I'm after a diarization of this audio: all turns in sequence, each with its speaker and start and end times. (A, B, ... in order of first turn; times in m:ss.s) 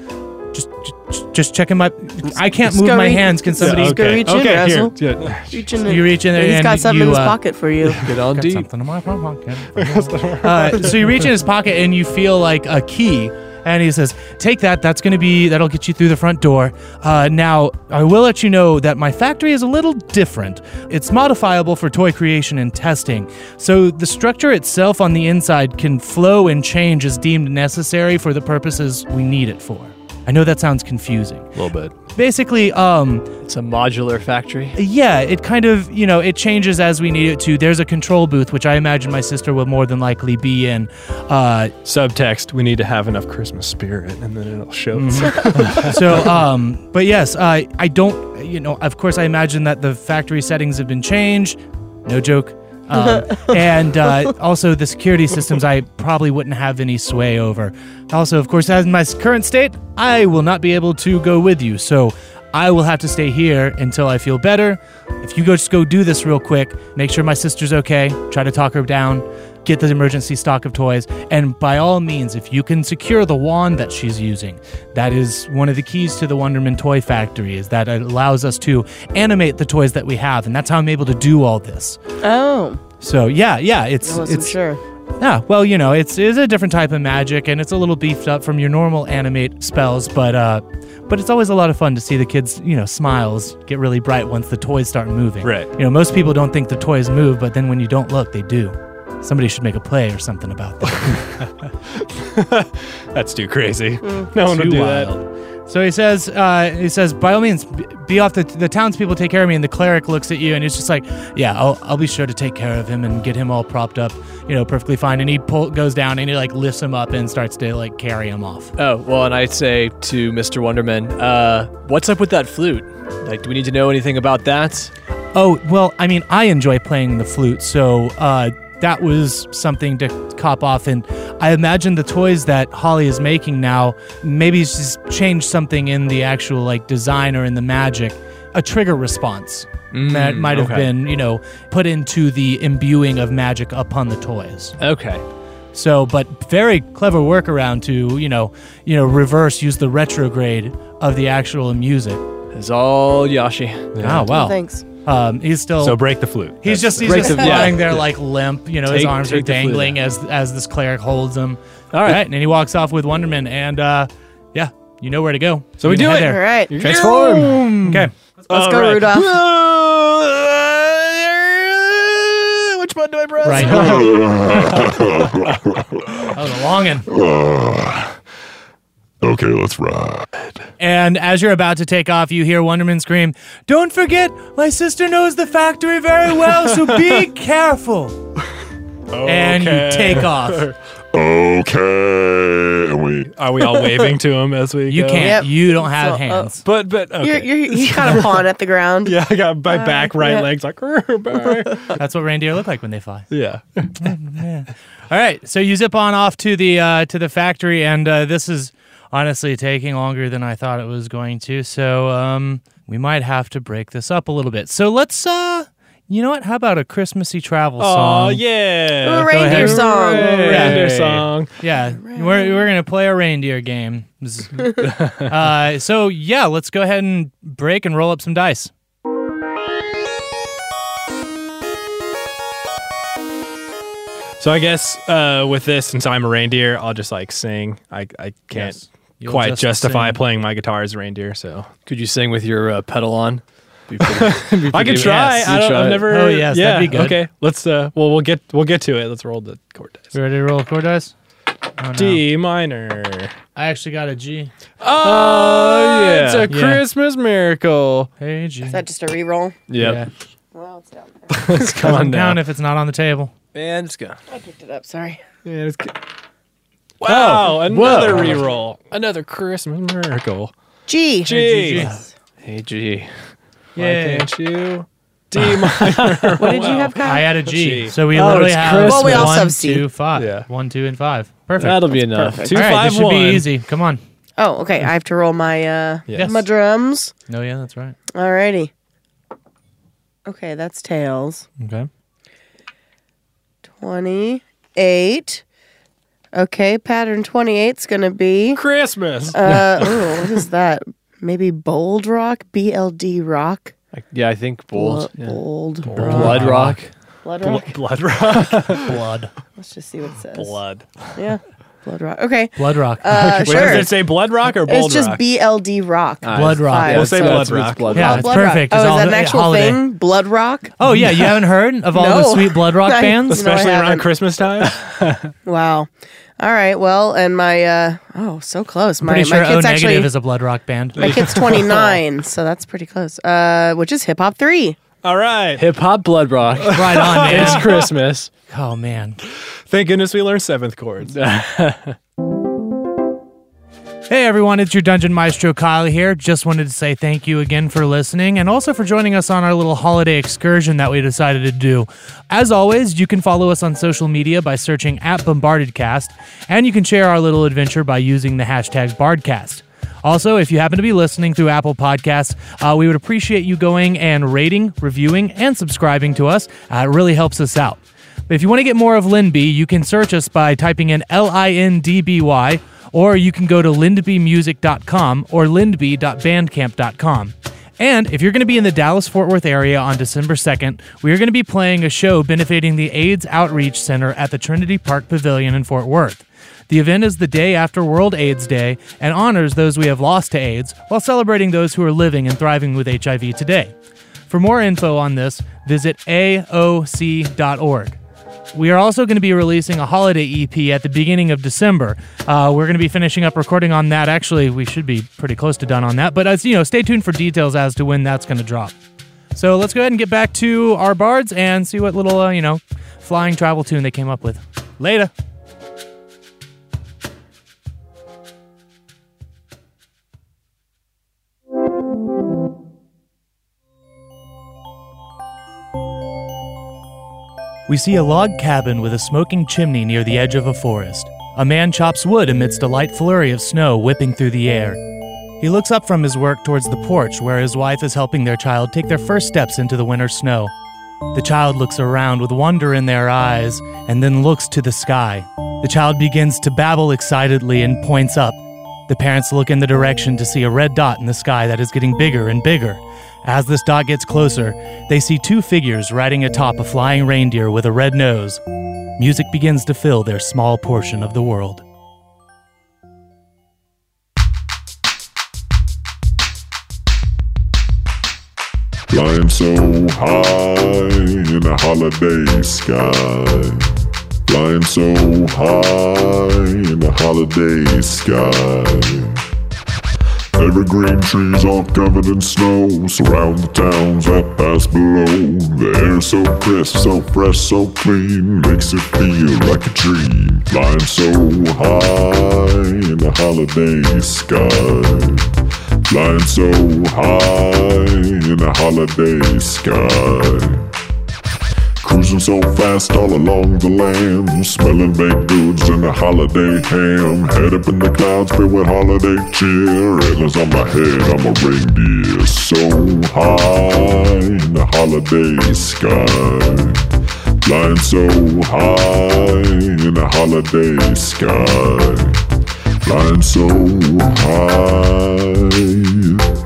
0:00.5-0:04.1 A
0:02.6-0:08.0 B
0:03.6-0:05.6 C
0:05.9-0:07.4 A
0:08.0-0:08.7 D
0:08.3-0:31.5 A
0:09.7-0:11.2 C
0:31.6-0:31.9 C
0:32.1-0:33.3 A
0:33.4-0:34.8 D
0:34.8-0:41.7 A
0:41.8-0:46.4 C
0:44.9-1:22.0 A
0:53.2-0:53.6 B
1:22.2-1:22.8 B
1:23.0-1:24.6 A
1:24.0-1:24.8 B
1:25.2-1:41.2 A
1:35.4-1:35.7 C
1:41.9-1:45.1 C
1:44.4-1:58.7 A
1:58.8-2:04.9 D
2:05.3-2:24.8 A
2:19.9-2:20.9 D
2:24.8-2:25.2 D
2:25.7-2:32.2 A
2:32.5-2:33.9 D
2:33.9-2:34.3 C
2:34.0-2:36.0 A
2:34.3-2:34.8 B
2:35.8-2:38.0 C
2:36.6-2:47.2 A
2:37.0-2:37.9 D
2:38.9-2:40.0 D
2:45.8-2:54.9 C
2:46.1-2:47.0 B
2:46.8-2:47.7 D
2:47.8-2:48.1 A
2:48.5-2:49.4 B
2:53.4-2:54.2 A
2:53.8-2:56.4 E
2:56.3-2:57.1 A
2:57.1-2:58.2 E
2:59.2-3:00.3 E
3:00.8-3:08.2 A
3:06.6-3:07.2 C
3:09.1-3:10.8 C
3:09.2-3:10.7 A
3:11.1-3:13.3 E
3:13.4-3:15.4 C
3:14.9-3:16.6 A
3:15.2-3:16.5 B
3:16.6-3:18.4 C
3:17.2-3:19.2 B
3:19.0-3:21.9 C
3:19.7-3:20.5 B
3:21.9-3:23.3 A
3:23.3-3:24.1 C
3:24.0-3:38.4 A
3:37.8-3:41.5 C
3:39.0-3:40.8 B
3:39.3-3:48.7 A
3:40.2-3:41.2 D
3:42.0-3:42.6 B
3:54.4-4:01.7 C
3:58.5-4:00.2 A
4:01.9-4:06.1 D
4:04.0-4:10.2 C
4:04.9-4:07.2 A
4:10.1-4:11.1 A
4:11.8-4:12.2 A
4:12.0-4:13.3 C
4:13.6-4:14.5 A
4:14.8-4:18.1 C
4:14.8-4:16.5 D
4:16.5-4:16.8 A
4:18.2-4:18.8 A
4:18.7-4:19.6 B
4:19.7-4:20.0 D
4:19.8-4:20.1 A
4:20.5-4:21.6 B
4:21.3-4:22.4 C
4:21.6-4:23.3 A
4:23.5-4:24.2 D
4:24.3-4:25.2 B
4:25.4-4:26.0 C
4:27.0-4:30.5 C
4:27.0-4:28.5 D
4:30.9-4:31.4 B
4:31.2-4:31.9 C
4:31.3-4:32.0 A
4:31.8-4:33.1 D
4:33.8-4:34.3 A
4:33.8-4:38.0 C
4:36.0-4:36.3 D
4:36.4-4:37.3 B
4:37.0-4:41.9 A
4:38.1-4:39.4 D
4:38.8-4:39.9 B
4:40.2-4:40.5 C
4:41.6-4:42.5 D
4:42.1-4:42.6 B
4:42.4-4:43.5 C
4:42.5-4:44.0 A
4:44.4-4:47.1 B
4:46.1-4:46.5 A
4:47.3-4:48.0 A
4:48.1-4:48.7 B
4:50.3-4:51.5 B
4:51.6-4:51.9 A
4:53.8-4:55.4 B
4:56.3-4:58.6 B
4:58.6-5:00.3 C
4:59.3-5:03.7 B
5:03.9-5:05.4 D
5:04.7-5:06.5 B
5:05.9-5:06.7 C
5:06.0-5:06.9 D
5:06.0-5:06.8 A
5:07.2-5:07.8 B
5:07.4-5:09.0 C
5:08.7-5:09.3 A
5:09.6-5:10.6 B
5:10.3-5:11.1 C
5:11.2-5:14.0 B
5:12.6-5:13.7 A
5:13.2-5:15.2 C
5:13.5-5:13.8 D
5:14.7-5:20.8 B
5:16.2-5:18.3 D
5:16.3-5:17.0 A
5:16.9-5:18.2 C
5:17.9-5:19.8 A
5:20.8-5:23.4 A
5:21.9-5:24.1 B
5:23.3-5:25.3 C
5:25.5-5:30.1 B
5:29.0-5:31.4 A
5:31.0-5:34.8 B
5:31.0-5:32.0 C
5:35.0-5:35.7 C
5:35.6-5:38.3 D
5:36.6-5:37.9 C
5:36.7-5:37.8 A
5:38.5-5:39.2 A
5:39.7-5:41.2 C
5:41.1-5:42.0 D
5:44.1-6:33.7 A
6:34.3-6:38.0 A
6:38.5-6:48.8 A
6:49.3-6:55.1 A
7:07.7-7:14.8 A
7:15.4-7:20.5 A
7:21.1-7:38.4 A
7:39.0-7:41.6 A
7:48.9-7:53.7 E
7:54.3-7:59.2 E
8:00.4-8:15.3 E
8:15.9-8:20.7 E
8:21.8-8:36.9 E
8:37.4-8:42.2 E
8:42.8-8:46.3 E